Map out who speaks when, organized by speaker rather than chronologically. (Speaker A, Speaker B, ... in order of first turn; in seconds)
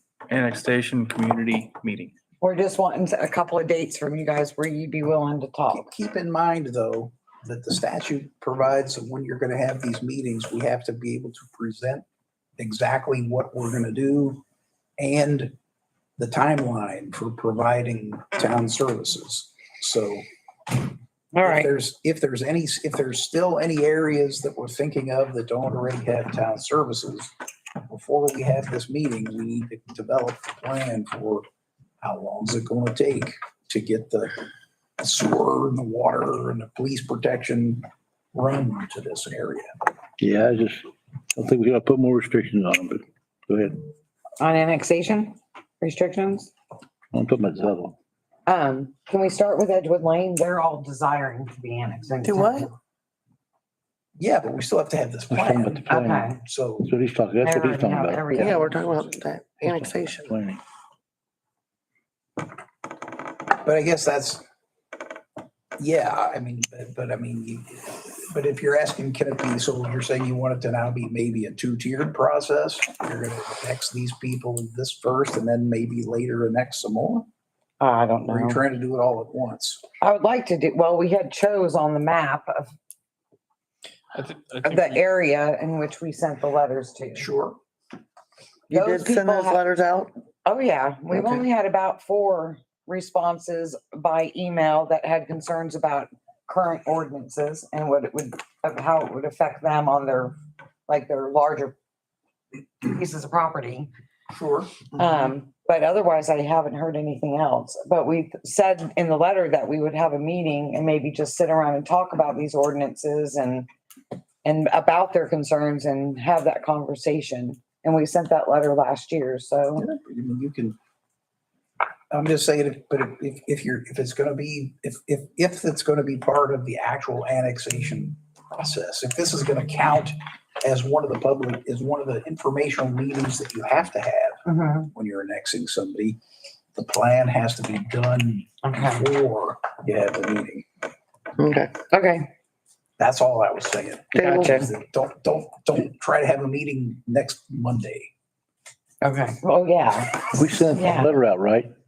Speaker A: 0.3-2.1, 84.1-85.0
Speaker B: 2.4-5.8, 21.3-21.7, 44.4-46.5, 48.5-52.7, 55.9-56.4, 57.4-58.8, 77.8-78.6, 80.0-82.7, 84.6-87.3, 88.7-89.6, 90.5-100.3, 100.9-101.8, 102.8-103.9, 104.9-113.7, 114.4-119.9, 134.5-134.9, 138.6-139.1, 141.9-142.3, 144.4-144.7, 149.0-151.1
Speaker C: 5.7-12.1, 12.6-14.4, 15.0-15.5, 16.2-20.2, 21.4-27.3, 27.9-31.5, 32.0-34.4, 35.0-39.7, 54.2-56.9, 63.6-64.4, 65.8-77.3, 78.2-79.8, 87.2-87.6, 104.3-104.8, 119.8-120.8, 122.1-134.4, 134.9-136.2, 136.8-140.7, 143.0-148.1
Speaker D: 40.2-43.8, 47.1-48.0, 55.3-58.7, 59.6-60.6, 150.4-151.7
Speaker E: 52.2-52.7, 58.4-60.4, 88.7-90.1, 91.1-91.4, 141.4-141.7, 144.1-144.6